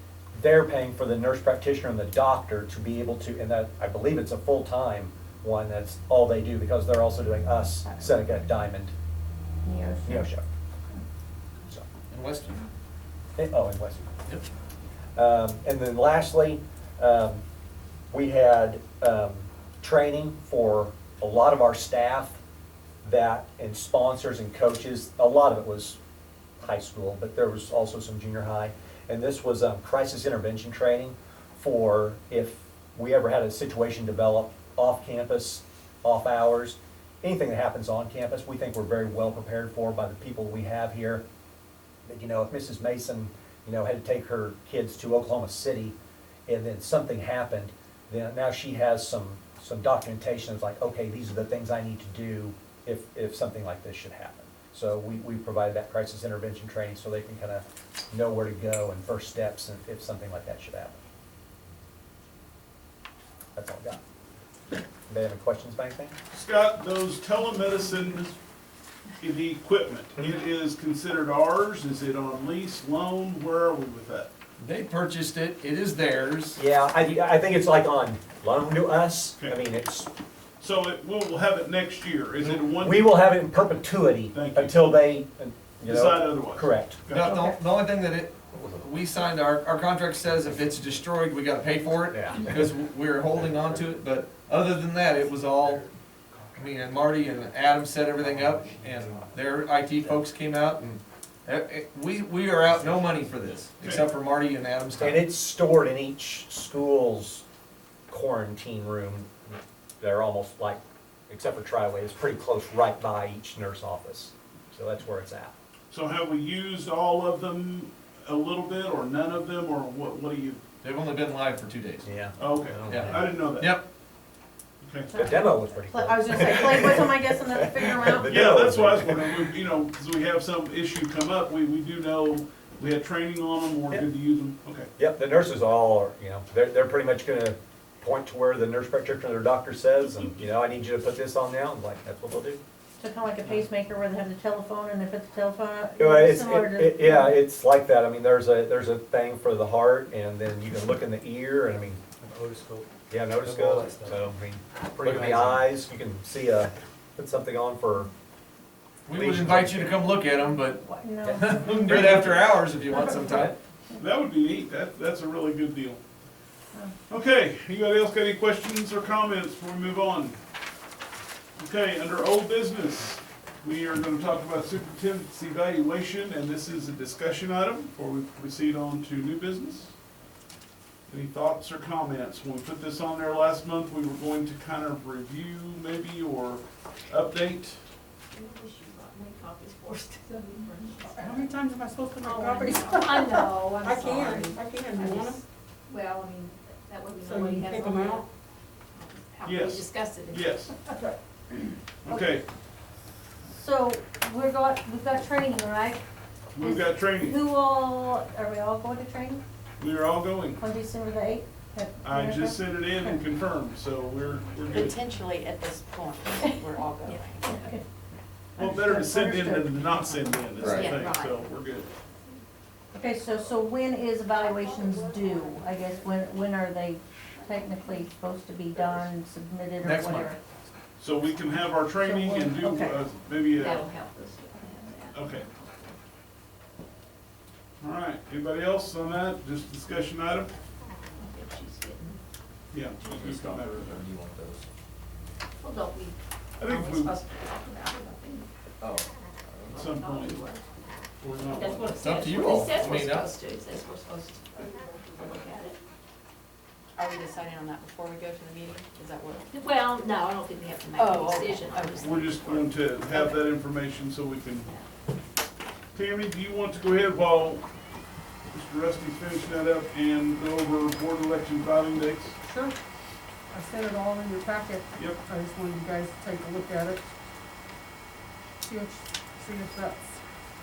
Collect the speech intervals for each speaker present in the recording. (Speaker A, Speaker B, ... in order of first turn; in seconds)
Speaker A: 0.3-8.9, 10.1-10.4, 13.4-14.1, 15.2-17.4, 18.1-22.4, 23.0-26.0, 26.6-41.2, 42.0-46.0, 46.5-61.0, 63.5-64.0, 65.1-66.2, 76.6-80.1, 82.8-87.0, 92.1-92.4, 105.0-107.4, 108.1-115.5, 122.0-122.4, 122.9-123.3, 125.2-129.5, 135.0-142.6, 146.0-152.0, 153.1-158.1, 159.1-160.0
Speaker B: 7.9-8.3, 9.6-10.3, 87.2-87.5, 125.1-128.4, 143.0-147.4, 160.8-162.2, 203.5-206.0, 206.6-209.4, 210.6-213.2, 217.5-217.8, 218.6-220.1, 222.9-230.4, 232.0-233.0
Speaker C: 12.1-12.7, 74.6-76.6, 87.1-95.9, 96.5-105.3, 120.8-122.2, 122.8-123.9, 159.1-163.6, 220.6-220.9, 229.8-230.3, 251.9-253.3
Speaker D: 66.3-68.4, 69.2-74.3, 80.6-83.2, 84.3-84.9, 85.8-87.4, 103.8-104.1, 115.9-120.6, 122.4-123.8, 124.8-125.2, 128.2-134.9, 164.0-166.0, 167.1-170.4, 171.6-179.9, 181.1-187.8, 199.4-200.7, 202.0-202.4, 206.5-207.4, 209.8-210.6, 212.0-215.0, 218.6-221.9, 231.0-233.9, 235.1-235.5, 237.8-240.5, 242.7-244.0, 246.6-247.2, 249.8-250.4, 251.2-251.9, 262.0-264.7, 265.9-267.6, 268.5-272.4, 274.9-275.2
Speaker E: 98.2-99.4, 102.7-103.3, 152.2-152.9, 153.4-155.7, 193.9-194.5, 220.9-221.3, 243.0-244.7, 248.8-249.8
Speaker F: 188.3-191.5, 192.2-193.9, 195.0-195.2, 195.9-198.2, 198.9-200.5, 217.1-217.7, 224.6-225.5, 233.6-236.0, 241.2-242.2, 245.6-246.2, 246.8-248.5, 249.7-250.6, 251.5-255.8, 259.5-262.6
Speaker G: 191.1-195.4, 197.2-198.3, 272.4-272.8, 273.5-277.0, 278.6-280.2
Speaker H: 214.7-217.5, 257.0-259.5, 261.0-262.4